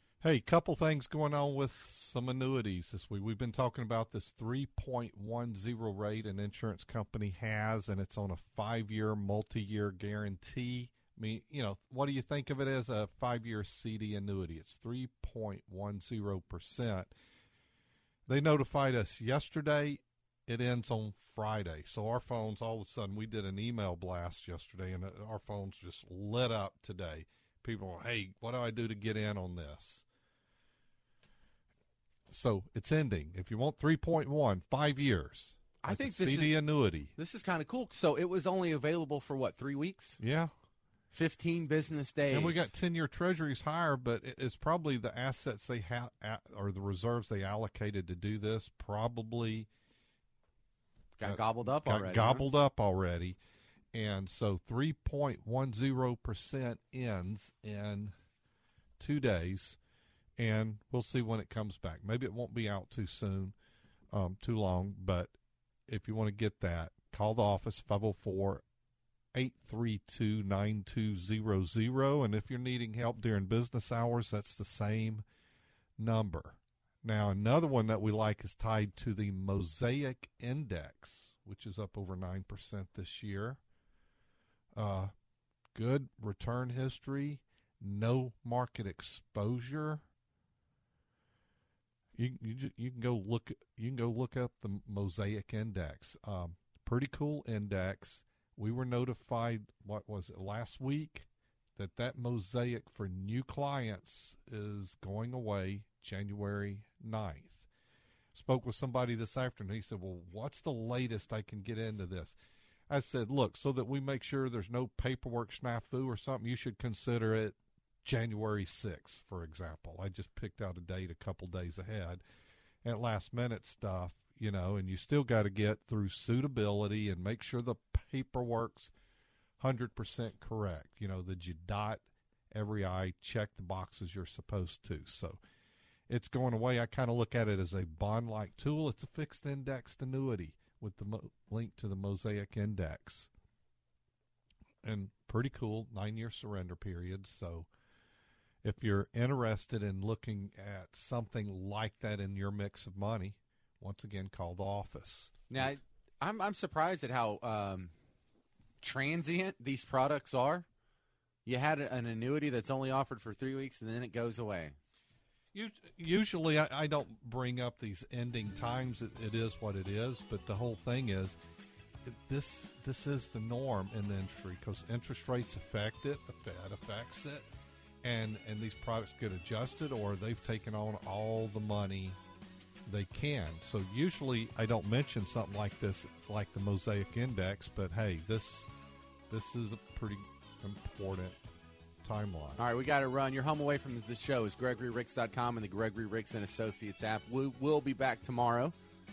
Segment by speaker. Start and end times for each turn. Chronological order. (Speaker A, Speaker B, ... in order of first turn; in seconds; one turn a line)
Speaker A: 0.2-17.1
Speaker A: 18.3-30.0
Speaker A: 32.3-37.1
Speaker B: 35.8-36.5
Speaker B: 37.1-40.2
Speaker A: 40.2-40.5
Speaker B: 41.1-42.7
Speaker A: 42.3-49.7
Speaker B: 51.2-52.5
Speaker A: 51.2-53.4
Speaker A: 53.9-58.1
Speaker A: 59.0-59.8
Speaker A: 60.4-63.5
Speaker A: 64.1-65.3
Speaker A: 65.9-68.6
Speaker A: 69.3-75.2
Speaker A: 76.0-83.6
Speaker A: 84.8-85.1
Speaker A: 85.7-90.0
Speaker A: 92.2-107.7
Speaker A: 108.3-112.4
Speaker A: 112.9-122.2
Speaker A: 122.8-128.9
Speaker A: 129.6-135.4
Speaker A: 136.1-143.3
Speaker A: 144.8-147.7
Speaker A: 148.6-155.7
Speaker B: 155.5-157.9
Speaker B: 158.8-160.6
Speaker B: 161.4-164.8
Speaker A: 165.5-171.4
Speaker A: 172.0-177.4
Speaker A: 178.0-182.2
Speaker A: 182.8-188.7
Speaker A: 189.3-191.4
Speaker A: 192.0-192.6
Speaker B: 192.6-198.7